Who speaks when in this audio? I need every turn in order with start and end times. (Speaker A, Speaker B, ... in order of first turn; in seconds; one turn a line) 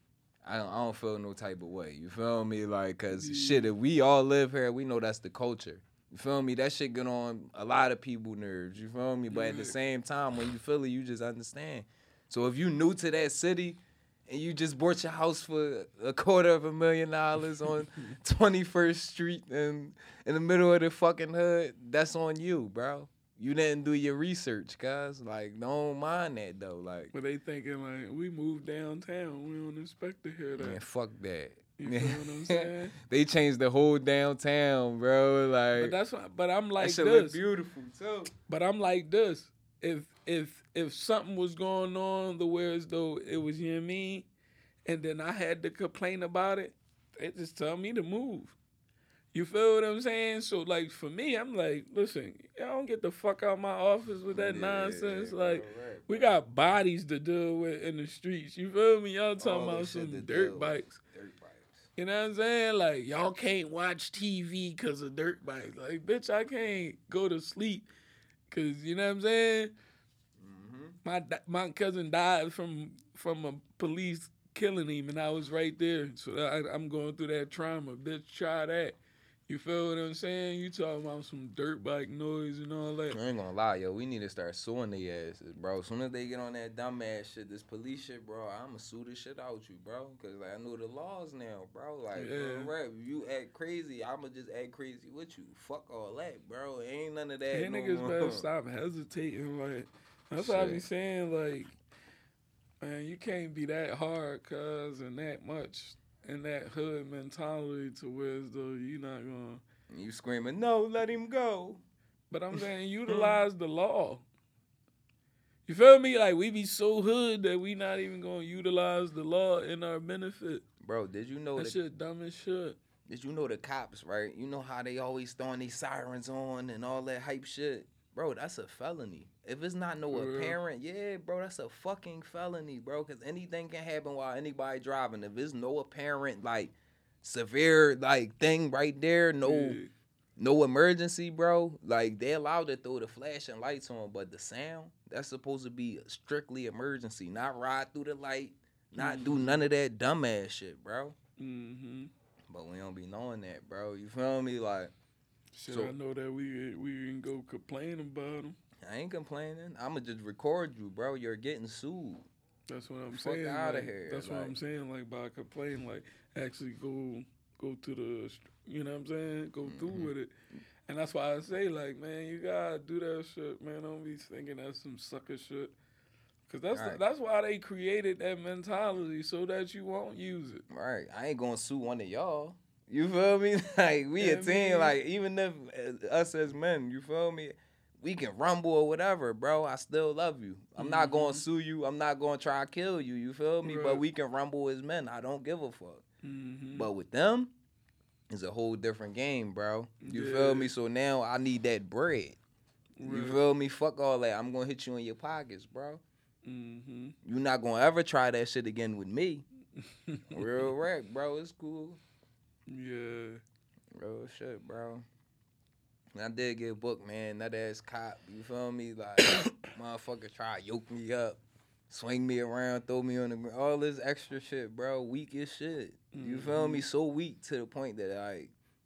Speaker A: 0.4-27.1
Speaker B: 3.1-3.7
Speaker B: 9.3-9.8
Speaker B: 27.1-30.8
Speaker A: 30.6-36.0
Speaker B: 31.8-33.0
Speaker B: 35.7-37.4
Speaker A: 36.8-38.3
Speaker B: 38.5-44.3
Speaker B: 44.9-48.5
Speaker B: 49.3-61.0
Speaker A: 54.3-56.4
Speaker A: 59.4-61.9
Speaker B: 62.0-67.9
Speaker B: 68.5-69.7
Speaker A: 70.4-71.0
Speaker B: 71.0-79.0
Speaker B: 79.5-83.2
Speaker A: 83.1-98.4
Speaker B: 92.1-92.7
Speaker B: 97.5-101.7
Speaker A: 100.4-100.8
Speaker B: 102.8-109.6
Speaker A: 109.9-111.8
Speaker B: 112.3-114.2
Speaker A: 112.5-113.4
Speaker B: 115.7-120.6
Speaker A: 120.8-121.8
Speaker B: 121.6-122.8
Speaker A: 123.1-139.8
Speaker B: 130.1-130.6
Speaker B: 139.4-139.9
Speaker A: 140.4-151.2
Speaker B: 149.0-149.6
Speaker B: 151.4-152.1
Speaker A: 152.5-154.9
Speaker B: 155.5-158.6
Speaker A: 155.7-155.9
Speaker A: 158.8-162.3
Speaker B: 162.7-170.3
Speaker A: 163.1-164.6
Speaker A: 169.7-170.1
Speaker B: 170.9-175.7
Speaker B: 176.5-180.6
Speaker A: 176.7-177.0
Speaker A: 180.7-196.0
Speaker B: 184.2-184.9
Speaker B: 190.8-191.4
Speaker B: 193.6-194.0
Speaker B: 196.2-196.9
Speaker A: 196.7-197.5
Speaker A: 198.3-202.4
Speaker B: 200.0-200.7
Speaker B: 203.0-203.4
Speaker A: 203.0-206.0
Speaker B: 206.4-207.2
Speaker A: 207.2-209.4
Speaker B: 209.8-210.6
Speaker A: 210.3-212.0
Speaker B: 212.7-213.4
Speaker A: 213.9-215.0
Speaker A: 216.2-228.5
Speaker B: 226.1-226.8